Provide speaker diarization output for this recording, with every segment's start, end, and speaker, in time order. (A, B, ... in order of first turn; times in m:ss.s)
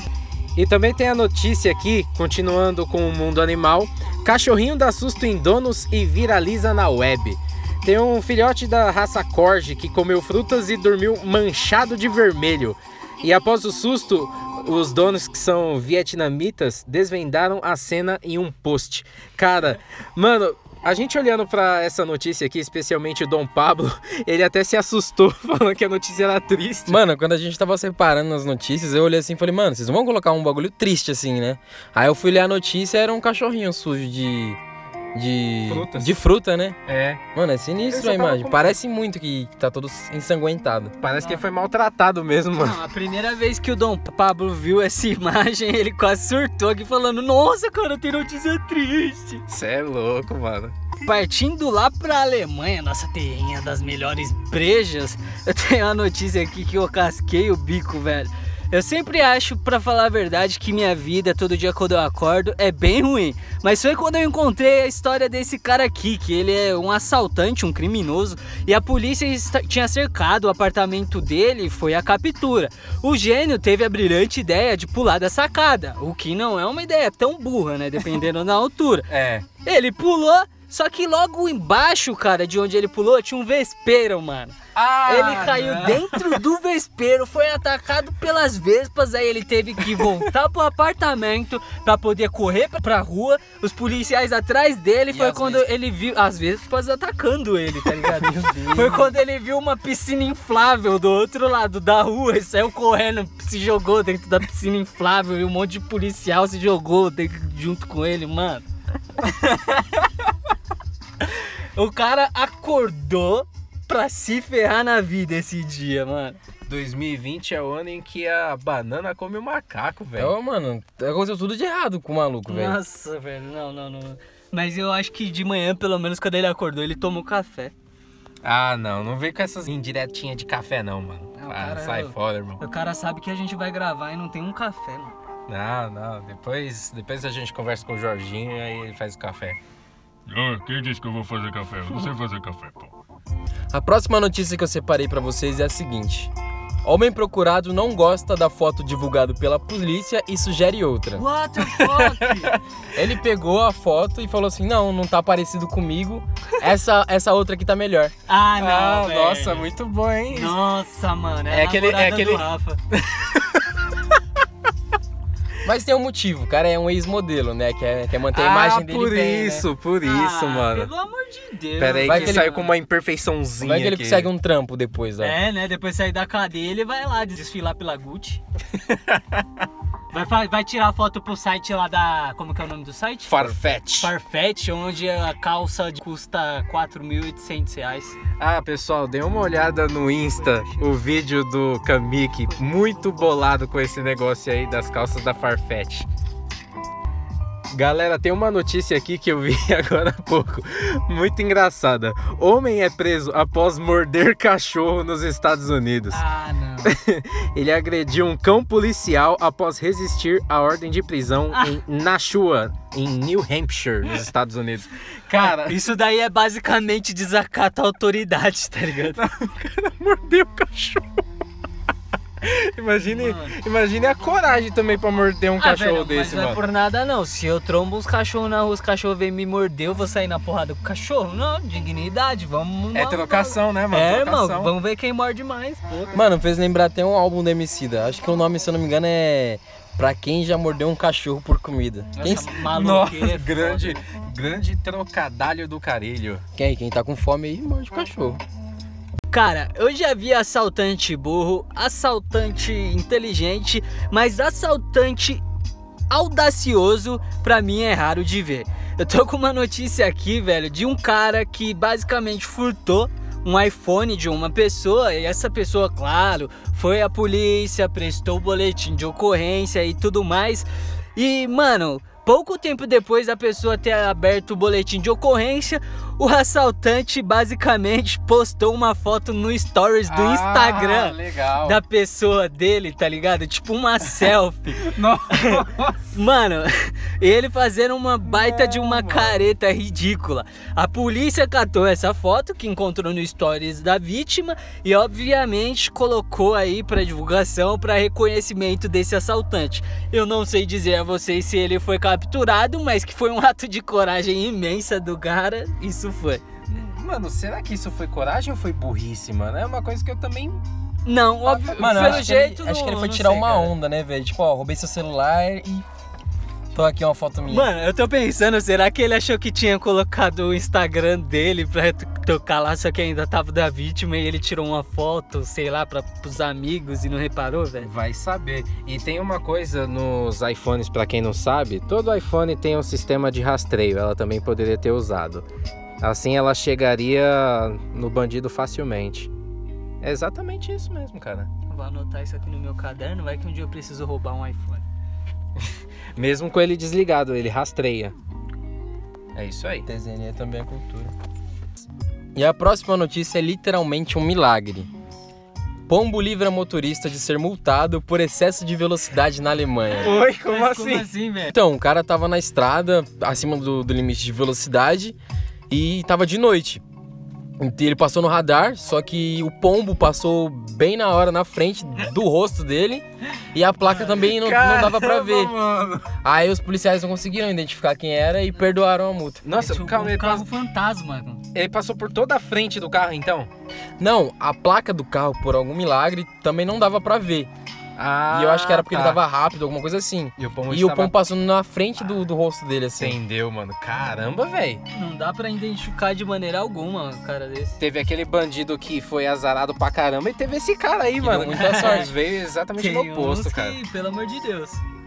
0:00.6-0:27.0 A
0:26.9-0:34.6 B
0:35.1-0:36.8 B
0:35.7-0:36.2 A
0:36.9-0:37.2 A
0:37.3-0:40.9 B
0:37.9-0:38.8 A
0:41.0-0:42.8 A
0:42.6-0:49.4 C
0:49.5-0:50.8 A
0:51.0-1:19.1 C
1:19.1-1:19.5 A
1:19.6-1:48.7 C
1:24.8-1:26.4 A
1:35.1-1:35.6 B
1:38.0-1:39.1 B
1:49.2-1:49.7 C
1:51.4-1:56.4 C
1:56.7-2:00.3 A
2:00.2-2:02.8 B
2:02.5-2:07.7 C
2:08.4-2:12.6 A
2:11.4-2:15.2 C
2:15.5-2:19.6 A
2:20.3-2:23.0 D
2:23.7-2:26.3 B
2:26.8-2:31.2 B
2:31.2-2:32.6 C
2:31.6-2:32.6 A
2:33.0-2:38.1 B
2:38.3-2:39.7 C
2:38.6-2:40.6 A
2:40.3-2:42.8 C
2:41.5-2:43.7 A
2:45.6-2:49.7 B
2:48.3-2:50.9 A
2:50.0-2:52.7 C
2:51.8-2:54.3 A
2:52.0-2:52.5 B
2:53.6-2:55.4 B
2:55.2-2:58.4 C
2:58.8-2:59.4 A
3:00.1-3:08.2 C
3:03.3-3:04.1 A
3:08.4-3:16.1 A
3:10.3-3:10.9 C
3:12.5-3:13.3 C
3:17.7-3:26.2 A
3:26.1-3:27.0 C
3:26.8-3:35.8 A
3:31.5-3:31.8 C
3:35.4-3:39.2 C
3:39.2-3:41.1 A
3:42.4-3:46.6 A
3:43.1-3:43.6 C
3:45.6-3:56.2 C
3:53.0-3:54.7 A
3:56.1-4:02.5 B
4:02.2-4:04.0 C
4:02.6-4:06.4 A
4:06.6-4:08.4 B
4:09.3-4:15.4 C
4:16.1-5:06.4 C
4:40.1-4:41.8 A
4:44.8-4:46.0 A
4:48.3-4:49.4 A
5:06.7-5:10.6 A
5:11.1-5:13.7 C
5:11.4-5:12.3 A
5:11.8-5:15.9 B
5:16.7-5:17.7 B
5:17.5-5:27.9 C
5:27.8-5:35.5 A
5:36.0-5:39.3 A
5:40.0-5:41.5 A
5:41.7-5:44.8 C
5:46.2-5:48.2 A
5:49.4-5:49.9 A
5:49.9-5:51.1 B
5:52.4-5:54.9 B
5:55.9-6:00.1 B
6:00.0-6:01.1 A
6:00.1-6:01.6 C
6:01.5-6:05.2 B
6:05.7-6:06.8 B
6:07.6-6:15.5 B
6:14.0-6:16.1 A
6:16.2-6:19.4 B
6:19.4-6:20.4 A
6:19.6-6:21.4 C
6:21.5-6:23.5 A
6:24.0-6:27.5 B
6:28.0-6:29.2 A
6:28.3-6:33.2 B
6:30.4-6:31.1 A
6:33.0-6:34.8 A
6:34.9-6:37.8 C
6:37.8-6:43.8 A
6:41.2-6:42.1 B
6:41.4-6:42.1 C
6:42.8-6:44.8 C